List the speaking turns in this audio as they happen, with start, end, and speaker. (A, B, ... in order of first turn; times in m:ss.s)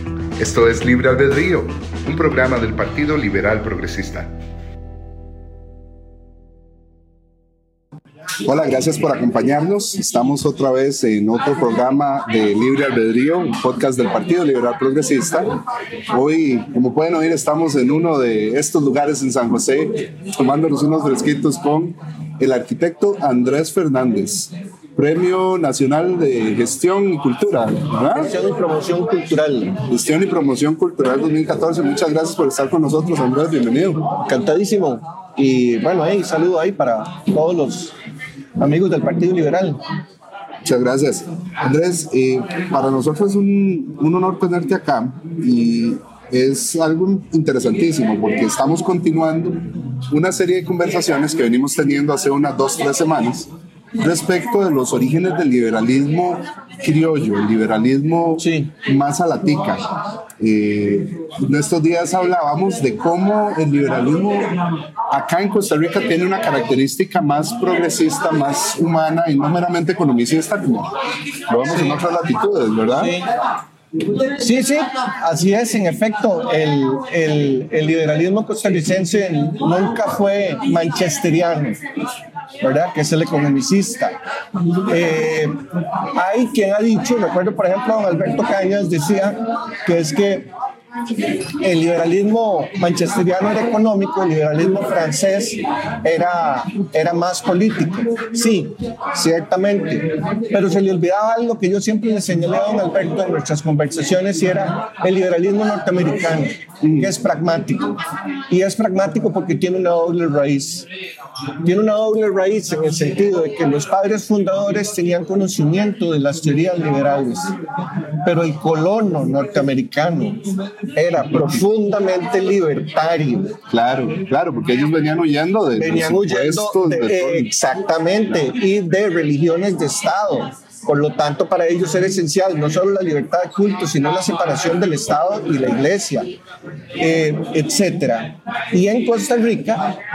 0:00.4-0:04.3 A
0:08.4-0:15.6 B
0:16.1-0:28.3 B
0:28.1-0:29.8 C
0:29.9-0:34.0 B
0:34.3-0:38.0 C
0:38.6-0:39.8 C
0:40.6-1:04.6 B
0:58.4-0:58.7 C
1:05.1-1:10.9 B
1:11.5-1:13.1 B
1:12.9-1:13.3 C
1:14.3-1:21.8 C
1:22.6-1:24.2 C
1:24.9-1:25.6 C
1:26.1-1:30.5 C
1:31.6-1:48.0 C
1:46.8-1:47.1 B
1:48.5-1:50.9 C
1:51.6-1:57.6 C
1:58.2-2:03.6 C
2:03.7-2:07.5 B
2:05.8-2:16.3 C
2:17.0-2:19.9 C